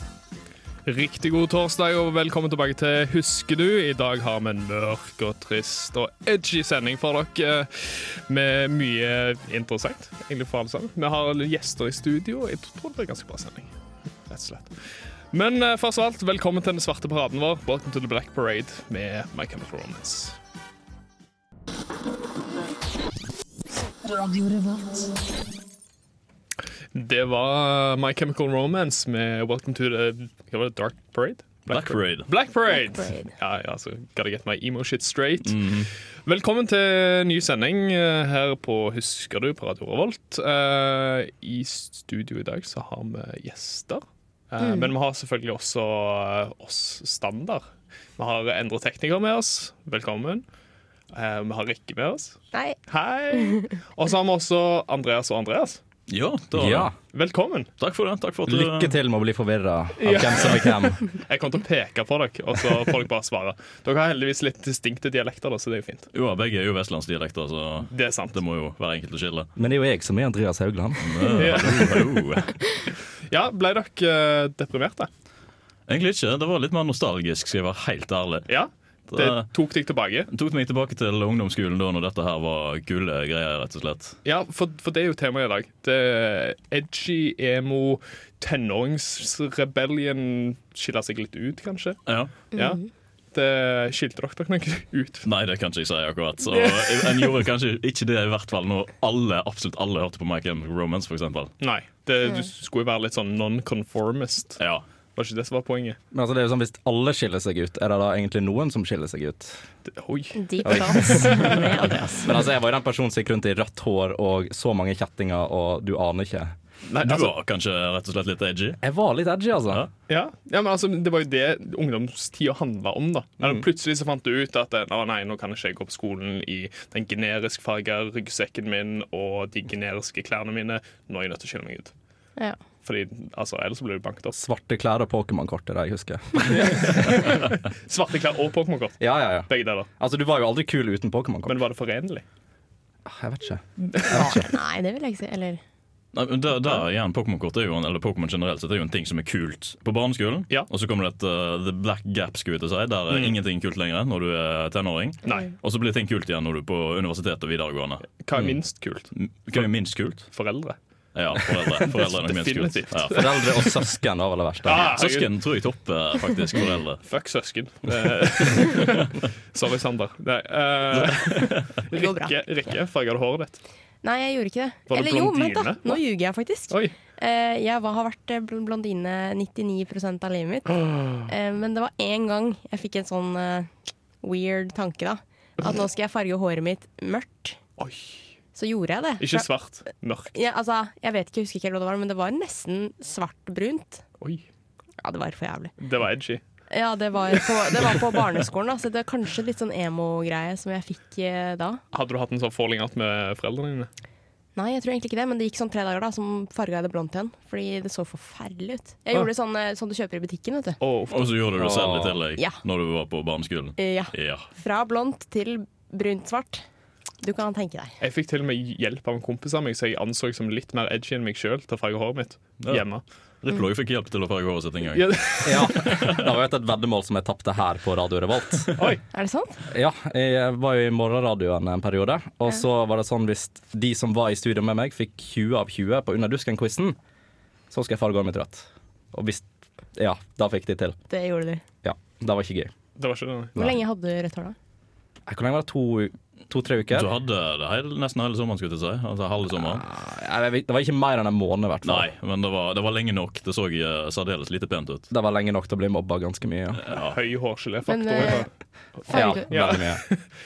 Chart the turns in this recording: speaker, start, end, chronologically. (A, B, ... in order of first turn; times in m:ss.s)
0:00.9-0:13.7 A
0:14.3-0:20.4 A
0:26.9-0:47.6 A
0:31.7-0:32.3 B
0:32.7-0:33.3 C
0:35.4-0:35.9 B
0:44.6-0:44.9 C
0:48.2-0:50.4 A
0:51.1-0:55.8 A
0:52.5-0:52.8 C
0:53.3-0:53.6 C
0:56.1-0:56.9 B
0:56.5-0:56.9 D
0:57.1-0:57.7 A
0:57.8-0:58.9 B
0:58.5-1:01.1 D
1:00.0-1:06.1 A
1:06.1-1:09.5 B
1:07.8-1:08.4 A
1:09.6-1:11.7 D
1:11.0-1:12.5 B
1:11.4-1:12.2 A
1:13.3-1:15.1 A
1:15.9-1:18.5 B
1:18.5-1:20.3 A
1:19.1-1:19.5 B
1:20.3-1:24.2 B
1:24.2-1:32.8 A
1:32.1-1:32.3 B
1:32.5-1:32.9 C
1:33.3-1:35.3 A
1:35.2-1:41.5 B
1:36.5-1:37.3 A
1:41.6-1:46.0 A
1:44.6-1:44.8 B
1:46.1-1:49.6 D
1:49.8-1:51.7 A
1:50.4-1:52.3 C
1:50.6-1:51.5 D
1:52.2-1:56.6 D
1:56.9-1:57.3 A
1:57.0-1:58.8 B
1:58.8-1:59.9 D
2:00.1-2:11.9 A
2:12.8-2:14.4 A
2:14.4-2:17.0 D
2:16.5-2:19.9 A
2:19.0-2:21.6 D
2:21.5-2:22.2 A
2:23.1-2:24.5 D
2:23.9-2:24.3 A
2:24.1-2:25.6 C
2:26.1-2:40.3 B
2:33.1-2:33.4 A
2:35.2-2:35.5 A
2:38.2-2:40.8 A
2:41.2-2:43.7 B
2:41.6-2:43.7 A
2:43.1-2:45.0 D
2:44.6-2:45.3 A
2:44.8-2:47.0 B
2:47.0-2:53.6 A
2:50.9-2:51.7 B
2:51.9-2:52.4 C
2:54.0-3:03.7 C
2:54.9-2:56.0 A
2:56.7-2:57.0 A
3:04.2-3:07.6 C
3:07.8-3:08.2 A
3:08.6-3:09.5 C
3:09.2-3:10.3 A
3:10.3-3:14.0 C
3:14.2-3:14.4 A
3:15.0-3:15.7 C
3:15.8-3:16.4 A
3:16.7-3:21.8 C
3:21.9-3:23.9 A
3:24.6-3:30.8 C
3:30.8-3:31.4 A
3:31.1-3:34.5 B
3:31.6-3:32.2 D
3:33.8-3:36.6 C
3:37.2-3:38.0 C
3:38.0-3:43.0 A
3:42.6-3:46.2 B
3:44.9-3:46.0 A
3:45.4-3:48.7 D
3:48.8-3:49.0 A
3:49.1-3:49.6 C
3:49.7-3:57.0 D
3:57.7-4:01.0 D
4:01.1-4:01.6 C
4:01.8-4:02.7 D
4:03.0-4:03.6 A
4:03.6-4:04.6 C
4:05.3-4:07.1 D
4:06.9-4:09.8 B
4:09.6-4:12.1 D
4:11.8-4:15.1 B
4:15.1-4:16.8 D
4:16.8-4:17.1 B
4:16.9-4:20.2 A
4:17.9-4:18.5 C
4:19.1-4:20.0 D
4:19.1-4:19.5 C